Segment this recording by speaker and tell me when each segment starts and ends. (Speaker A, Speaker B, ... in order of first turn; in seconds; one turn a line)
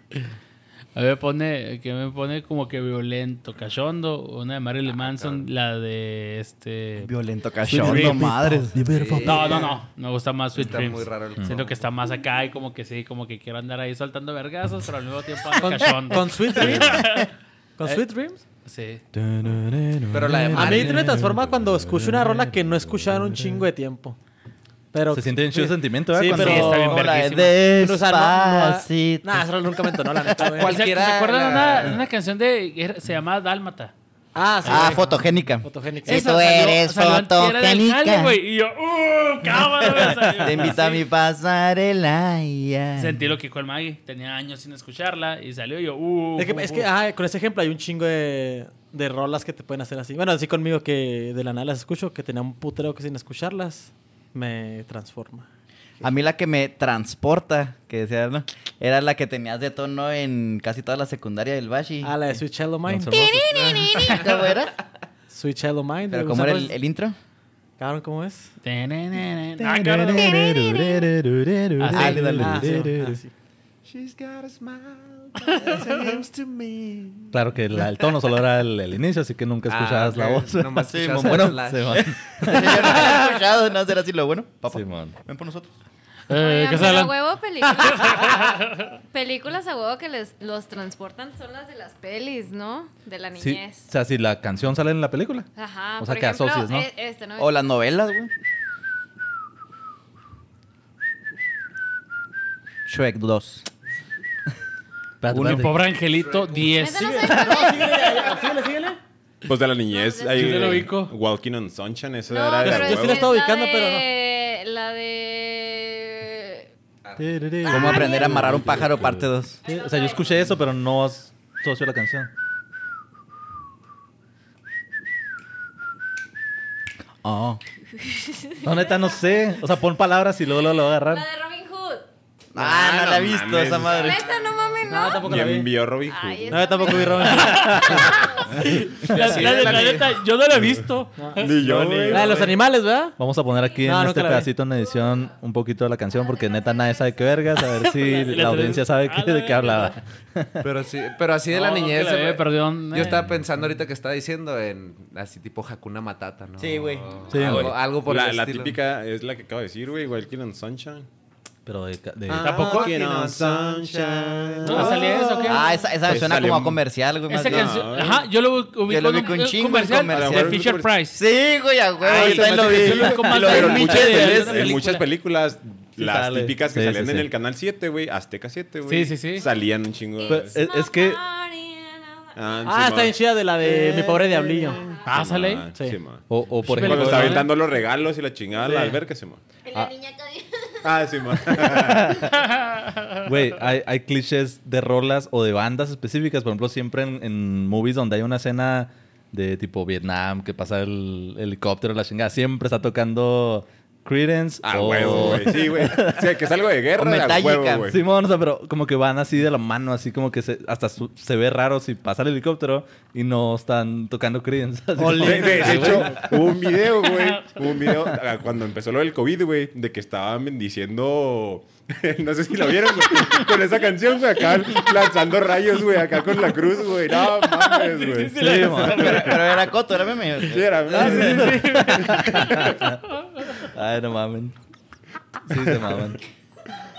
Speaker A: 0.9-7.1
Speaker B: 7.0-8.8
Speaker C: 7.7-9.7
Speaker D: 8.8-9.7
Speaker A: 9.2-17.3
Speaker D: 10.5-11.7
Speaker E: 15.5-17.3
Speaker E: 17.8-18.4
Speaker A: 18.6-19.0
Speaker C: 19.1-23.6
Speaker D: 20.1-21.2
Speaker E: 20.5-24.2
Speaker E: 24.9-27.0
Speaker C: 25.1-27.1
Speaker B: 26.2-29.8
Speaker A: 26.3-27.6
Speaker E: 27.7-30.8
Speaker D: 30.6-32.0
Speaker A: 30.6-33.9
Speaker E: 34.3-36.5
Speaker A: 34.6-35.0
Speaker B: 34.6-38.4
Speaker A: 36.1-41.0
Speaker C: 40.0-40.7
Speaker B: 40.0-43.2
Speaker A: 43.0-46.9
Speaker E: 46.4-55.5
Speaker B: 56.0-62.1
Speaker E: 62.0-63.2
Speaker C: 62.9-63.7
Speaker F: 63.1-64.4
Speaker B: 63.9-64.7
Speaker E: 65.3-66.7
Speaker B: 66.1-67.2
Speaker E: 67.8-68.5
Speaker A: 68.6-70.5
Speaker C: 69.6-73.2
Speaker F: 70.1-71.1
Speaker A: 71.8-72.3
Speaker B: 71.9-72.8
Speaker E: 72.3-73.3
Speaker D: 73.8-77.3
Speaker C: 77.3-83.3
Speaker D: 79.7-82.1
Speaker B: 80.9-85.7
Speaker C: 84.7-85.1
Speaker A: 86.3-87.1
Speaker F: 86.3-93.9
Speaker C: 93.4-96.9
Speaker F: 95.5-97.6
Speaker B: 97.4-98.3
Speaker B: 102.8-103.7
Speaker C: 105.2-105.8
Speaker B: 105.3-105.7
Speaker A: 105.4-107.2
Speaker F: 106.5-108.3
Speaker E: 106.9-109.0
Speaker G: 109.4-113.3
Speaker F: 109.8-110.7
Speaker A: 110.3-111.1
Speaker C: 110.5-110.8
Speaker F: 112.3-116.7
Speaker E: 112.6-114.0
Speaker D: 117.0-117.7
Speaker C: 117.2-122.3
Speaker B: 117.6-119.6
Speaker F: 117.7-118.4
Speaker F: 119.6-120.4
Speaker B: 127.2-127.6
Speaker F: 128.2-129.2
Speaker C: 128.6-131.2
Speaker F: 130.9-132.0
Speaker B: 132.5-134.2
Speaker G: 132.5-134.2
Speaker F: 133.8-138.6
Speaker E: 134.9-135.7
Speaker G: 135.2-136.9
Speaker E: 136.5-137.8
Speaker A: 137.3-142.4
Speaker D: 139.0-140.1
Speaker G: 139.1-140.0
Speaker G: 140.6-140.8
Speaker E: 141.2-143.2
Speaker G: 141.3-142.5
Speaker C: 143.2-150.6
Speaker E: 143.8-144.5
Speaker A: 147.8-149.9
Speaker D: 150.6-158.8
Speaker A: 151.5-153.2
Speaker B: 156.6-157.1
Speaker C: 157.3-157.8
Speaker G: 157.4-161.1
Speaker C: 161.7-162.7
Speaker G: 162.3-166.8
Speaker D: 162.3-164.3
Speaker A: 162.4-162.9
Speaker B: 164.6-168.0
Speaker A: 164.6-165.7
Speaker A: 167.3-171.2
Speaker G: 167.4-168.2
Speaker B: 168.8-174.8
Speaker G: 170.1-170.9
Speaker A: 172.0-175.0
Speaker G: 172.1-180.5
Speaker C: 172.8-173.9
Speaker C: 176.0-177.3
Speaker A: 178.8-179.5
Speaker F: 180.2-182.7
Speaker C: 180.3-181.2
Speaker G: 182.3-183.2
Speaker E: 182.7-184.8
Speaker F: 184.5-185.1
Speaker G: 184.9-189.4
Speaker A: 185.0-185.7
Speaker E: 185.7-186.0
Speaker C: 186.3-187.5
Speaker A: 186.7-187.5
Speaker E: 188.6-189.0
Speaker F: 189.7-191.0
Speaker G: 190.8-192.2
Speaker C: 191.6-192.3
Speaker A: 192.8-193.0
Speaker C: 193.2-206.4
Speaker G: 204.6-208.0
Speaker B: 206.9-207.9
Speaker C: 207.9-216.3
Speaker E: 215.0-216.4
Speaker G: 215.2-228.4
Speaker A: 227.3-229.4
Speaker C: 228.3-229.3
Speaker B: 228.8-231.2
Speaker G: 230.4-232.5
Speaker A: 230.9-233.4
Speaker C: 231.1-233.0
Speaker C: 233.6-234.5
Speaker C: 235.4-236.2